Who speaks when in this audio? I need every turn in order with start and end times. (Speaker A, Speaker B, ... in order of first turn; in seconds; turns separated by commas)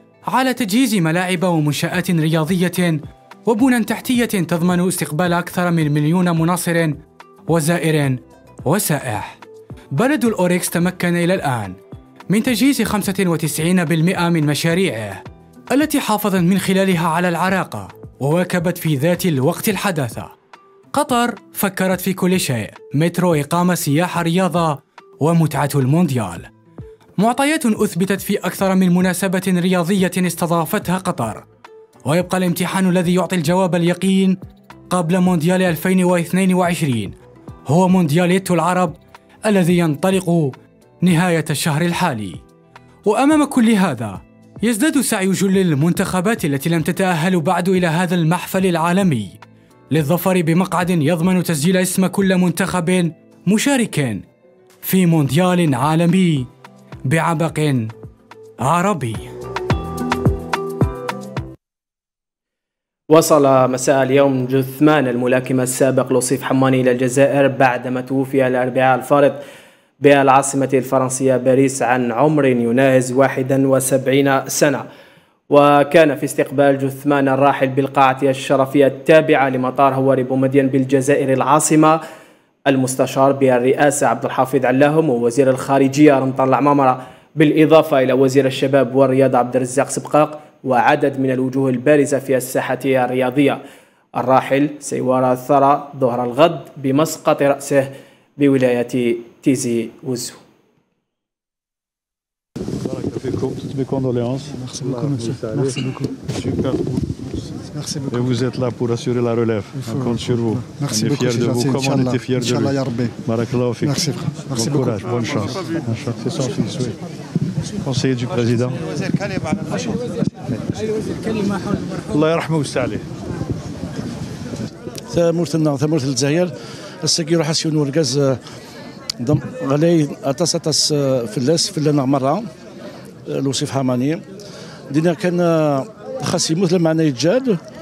Speaker A: 0.3-6.9, Speaker A: 7.5-9.4, Speaker A: 9.9-11.8, Speaker A: 12.3-15.2, Speaker A: 15.7-20.3, Speaker A: 20.9-26.5, Speaker A: 27.2-31.4, Speaker A: 32.0-34.4, Speaker A: 34.9-37.1, Speaker A: 37.7-42.4, Speaker A: 43.0-49.4, Speaker A: 49.9-54.2, Speaker A: 54.8-56.5, Speaker A: 57.1-57.9, Speaker A: 58.6-59.3, Speaker B: 63.1-69.4, Speaker B: 70.0-74.8, Speaker B: 75.5-82.0, Speaker B: 82.7-93.6, Speaker B: 94.2-100.4, Speaker C: 102.9-105.8, Speaker D: 104.6-106.0, Speaker C: 106.3-107.0, Speaker D: 107.7-108.1, Speaker C: 108.1-114.0, Speaker D: 109.8-113.1, Speaker D: 113.9-115.8, Speaker C: 114.5-116.9, Speaker C: 117.8-118.8, Speaker C: 122.1-123.0, Speaker D: 125.1-128.4, Speaker D: 129.2-132.5, Speaker D: 133.3-134.2, Speaker D: 134.9-137.6